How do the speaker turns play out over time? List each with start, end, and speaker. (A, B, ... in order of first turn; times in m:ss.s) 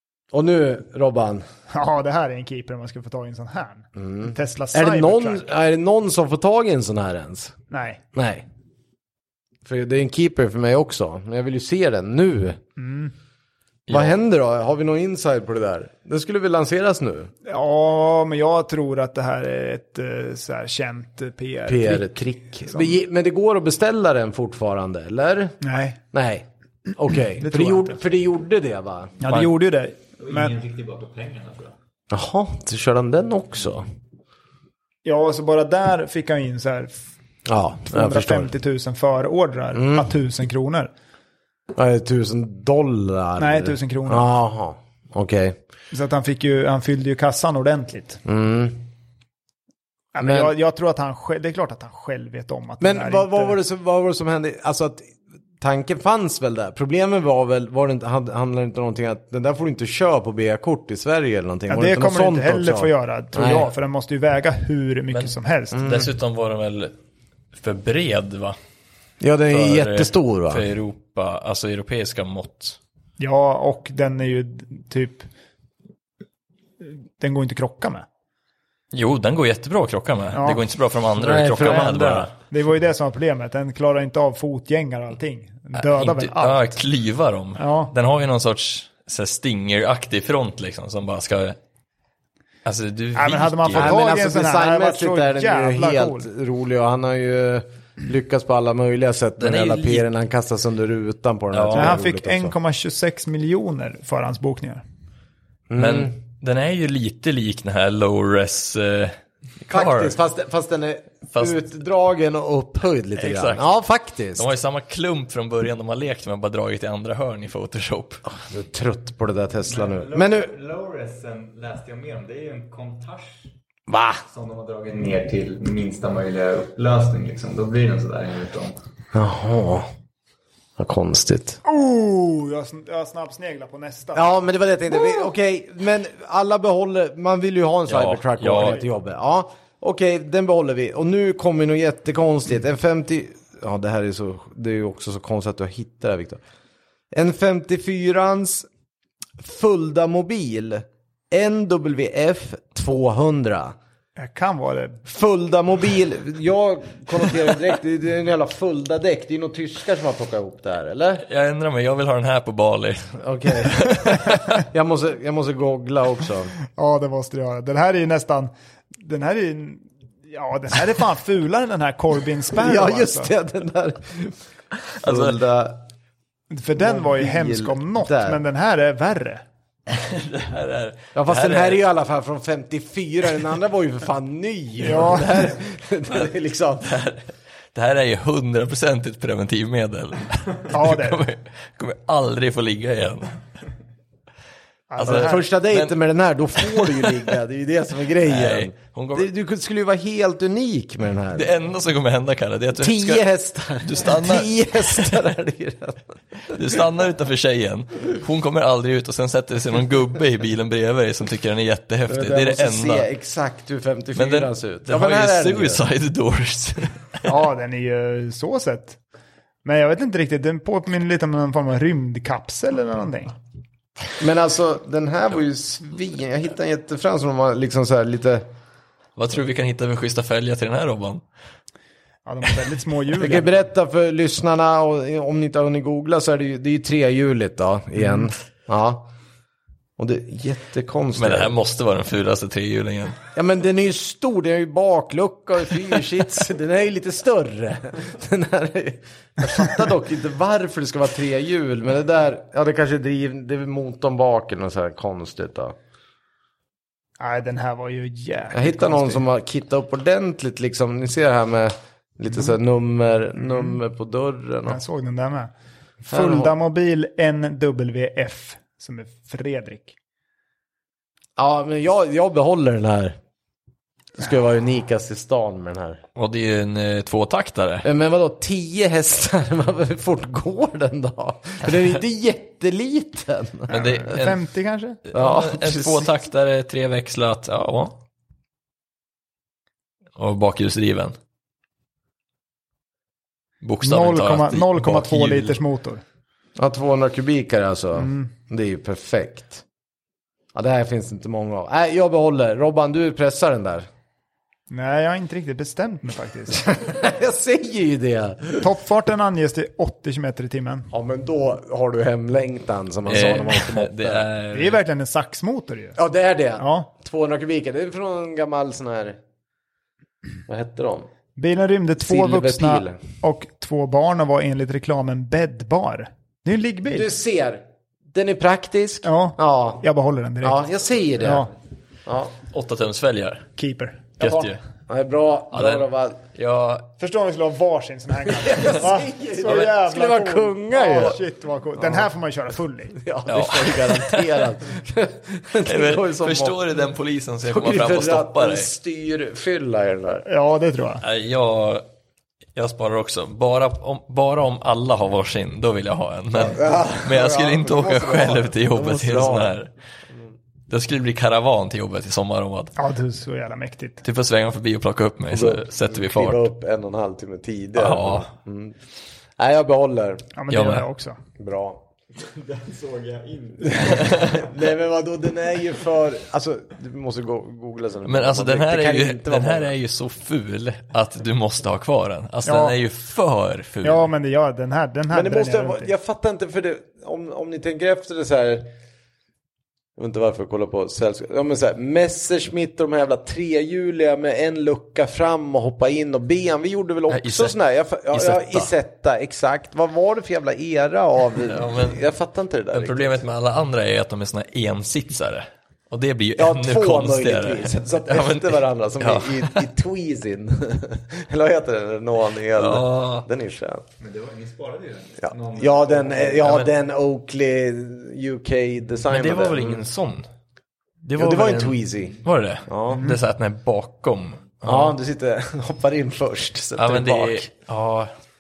0:00.3-0:01.4 A
0:01.7-0:05.5 B
0:04.0-0:07.5 A
0:07.7-0:08.0 B
0:08.1-0:08.4 A
0:09.6-0:12.6 A
0:12.8-0:13.1 B
0:13.9-0:14.2 C
0:13.9-0:17.3 A
0:17.4-0:22.1 B
0:21.6-0:25.6 A
0:22.7-0:22.9 B
0:25.6-0:26.0 B
0:26.1-0:29.1 A
0:27.4-0:28.0 B
0:29.2-0:30.5 B
0:30.2-0:31.7 D
0:32.1-0:33.8 A
0:35.0-0:37.0 B
0:37.4-0:38.5 A
0:37.9-0:40.9 B
0:39.7-0:40.1 A
0:41.7-0:45.6 A
0:43.4-0:44.3 B
0:45.9-0:48.2 B
0:48.2-0:48.9 A
0:50.1-0:53.6 B
0:50.2-0:50.5 A
0:52.8-1:03.7 A
1:01.7-1:05.8 B
1:05.1-1:06.9 C
1:05.7-1:06.1 A
1:07.5-1:08.6 C
1:09.2-1:10.6 A
1:09.5-1:12.8 C
1:13.2-1:15.3 B
1:17.2-1:18.0 B
1:18.9-1:22.3 C
1:20.3-1:20.6 B
1:21.2-1:22.3 A
1:22.5-1:26.8 B
1:25.7-1:31.6 C
1:27.6-1:27.9 B
1:32.6-1:33.9 C
1:33.2-1:36.3 B
1:33.7-1:42.5 A
1:39.4-1:40.1 C
1:41.5-1:42.0 C
1:41.7-1:44.8 B
1:45.7-1:46.1 A
1:45.8-1:50.2 C
1:49.7-1:54.5 A
1:51.3-1:51.6 C
1:53.2-1:53.6 C
1:54.3-1:58.2 C
1:58.3-2:00.5 A
1:59.6-2:03.4 D
2:03.9-2:04.2 A
2:04.3-2:08.8 D
2:09.1-2:09.9 A
2:10.8-2:11.6 A
2:11.6-2:14.3 B
2:14.1-2:26.4 A
2:17.9-2:18.8 C
2:27.1-2:28.7 A
2:29.4-2:33.8 A
2:34.2-2:35.0 B
2:35.0-2:41.2 A
2:41.3-2:44.6 C
2:43.2-2:46.5 A
2:46.7-2:53.3 B
2:52.5-2:54.4 A
2:55.0-2:55.8 A
2:55.0-2:55.4 C
2:56.5-2:59.4 B
2:56.8-2:58.4 A
2:59.9-3:01.8 C
3:01.1-3:07.0 A
3:04.8-3:05.5 B
3:06.8-3:07.2 C
3:07.7-3:13.4 C
3:10.7-3:11.2 B
3:14.9-3:15.4 B
3:15.0-3:15.9 C
3:15.0-3:21.5 A
3:16.6-3:17.3 C
3:18.2-3:19.3 C
3:21.3-3:23.2 C
3:22.8-3:26.8 A
3:23.8-3:25.2 C
3:26.5-3:33.0 C
3:32.1-3:35.8 A
3:34.2-3:37.3 C
3:37.2-3:39.0 B
3:39.6-3:43.3 B
3:44.2-3:48.4 A
3:49.2-3:51.2 C
3:52.2-3:53.5 B
3:53.2-3:59.1 A
4:00.0-4:01.5 A
4:01.1-4:03.2 C
4:03.3-4:15.8 A
4:17.2-4:19.2 B
4:18.5-4:24.8 A
4:24.6-4:25.5 B
4:26.0-4:29.9 B
4:26.1-4:26.5 A
4:31.4-4:33.2 A
4:34.2-4:36.0 A
4:36.2-4:37.9 C
4:37.8-4:44.2 A
4:43.7-4:44.4 C
4:43.7-4:45.0 B
4:45.1-4:47.9 C
4:45.1-4:46.1 A
4:50.2-4:51.2 C
4:53.6-4:55.6 C
4:53.8-4:56.0 B
4:56.6-4:59.6 A
4:58.0-4:58.3 B
5:00.5-5:03.9 A
5:04.7-5:06.6 B
5:06.5-5:08.7 A
5:08.6-5:10.9 B
5:10.9-5:14.2 A
5:13.0-5:14.8 C
5:14.5-5:16.0 B
5:16.0-5:19.2 A
5:16.6-5:16.9 B
5:20.5-5:21.1 A
5:21.4-5:27.1 B
5:22.0-5:23.0 A
5:26.8-5:29.8 A
5:29.0-5:30.6 B
5:30.4-5:31.5 A
5:31.2-5:31.5 B
5:32.0-5:32.3 A
5:32.5-5:33.5 C
5:33.6-5:34.5 B
5:34.2-5:34.6 C
5:34.9-5:36.2 A
5:35.5-5:36.9 C
5:37.0-5:43.0 B
5:38.3-5:41.2 A
5:41.8-5:42.1 A
5:42.9-5:46.6 A
5:43.3-5:44.5 C
5:45.6-5:48.7 C
5:47.4-5:50.2 A
5:50.2-5:51.0 B
5:51.0-5:51.9 C
5:52.5-5:59.7 C
5:56.3-5:59.5 A
6:00.7-6:02.7 C
6:02.8-6:04.0 B
6:04.0-6:06.5 C
6:05.3-6:08.8 A
6:07.7-6:08.3 C
6:09.4-6:10.3 A
6:10.3-6:11.2 B
6:10.5-6:10.8 C
6:11.4-6:11.8 A
6:12.1-6:14.5 D
6:13.6-6:19.7 A
6:13.9-6:14.3 C
6:18.0-6:24.1 C
6:22.4-6:22.7 B
6:23.8-6:25.9 B
6:25.1-6:28.7 A
6:30.0-6:43.2 A
6:37.1-6:37.6 C
6:38.1-6:38.7 C
6:41.4-6:42.0 C
6:42.7-6:49.7 C
6:46.4-6:53.8 A
6:52.6-6:53.3 C
6:54.0-6:56.6 D
6:55.2-6:59.8 A
6:59.1-7:00.2 C
7:01.0-7:04.9 C
7:01.2-7:03.1 A
7:04.6-7:07.4 A
7:06.8-7:08.1 C